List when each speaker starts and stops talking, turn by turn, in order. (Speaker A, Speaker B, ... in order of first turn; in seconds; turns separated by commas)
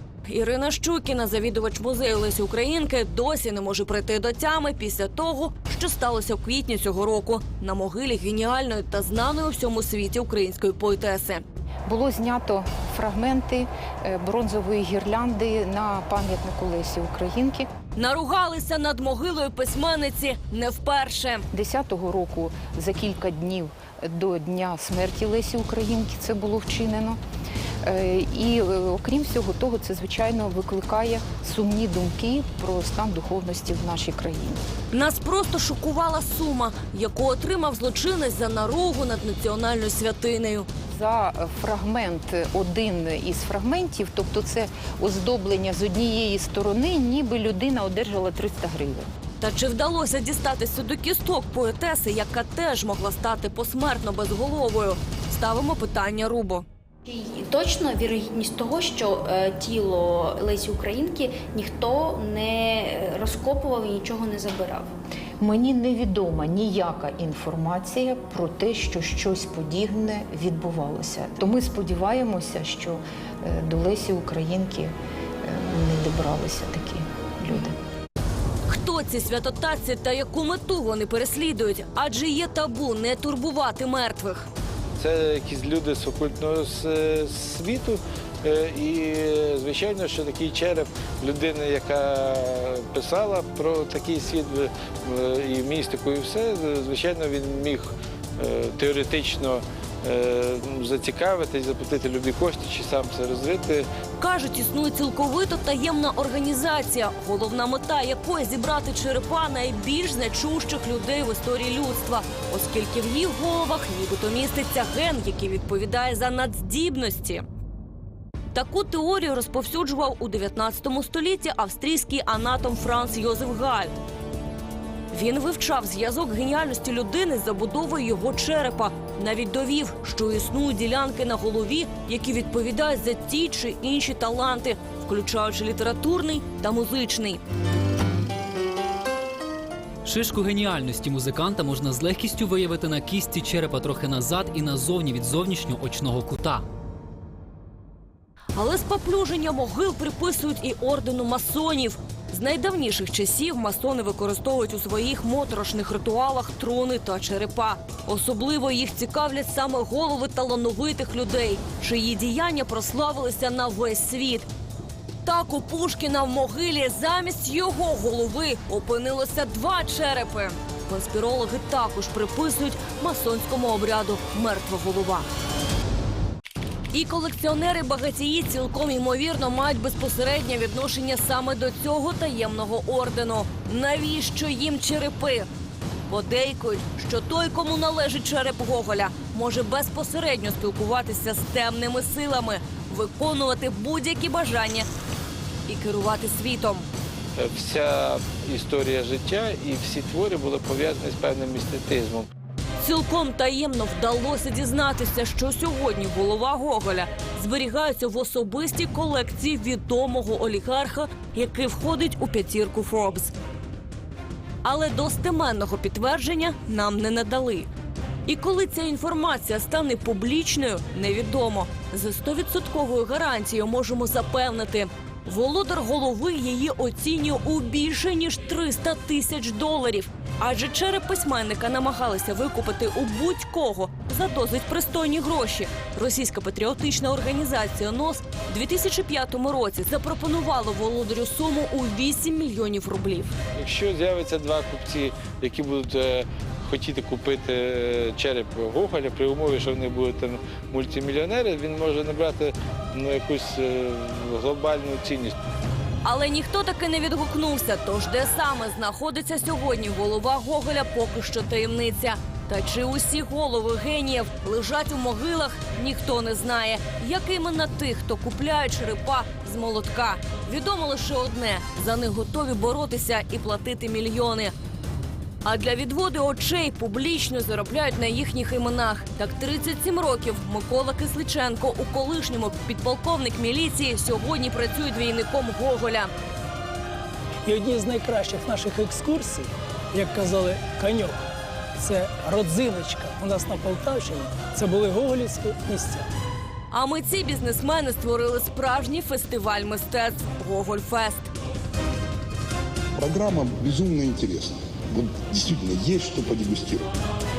Speaker A: 0.2-11.4, Speaker B: 11.9-17.7, Speaker A: 17.9-21.4, Speaker B: 21.5-27.2, Speaker B: 27.8-34.6, Speaker A: 34.9-40.7, Speaker B: 40.9-49.1, Speaker A: 49.4-56.6, Speaker C: 57.1-64.9, Speaker B: 65.4-77.8, Speaker A: 78.7-84.5, Speaker D: 85.0-103.9, Speaker A: 104.2-117.4, Speaker A: 118.5-123.9, Speaker A: 125.1-137.4, Speaker E: 140.0-146.7, Speaker A: 148.5-164.5, Speaker A: 165.2-175.3, Speaker A: 176.9-185.5, Speaker A: 186.1-194.9, Speaker A: 195.7-196.9, Speaker D: 197.3-202.3, Speaker A: 202.8-213.3, Speaker A: 214.6-217.7, Speaker A: 218.2-243.3, Speaker D: 243.6-255.3, Speaker A: 256.0-274.5, Speaker A: 275.4-286.1, Speaker F: 287.5-291.2, Speaker F: 291.8-296.1, Speaker A: 296.7-301.3, Speaker G: 303.0-306.9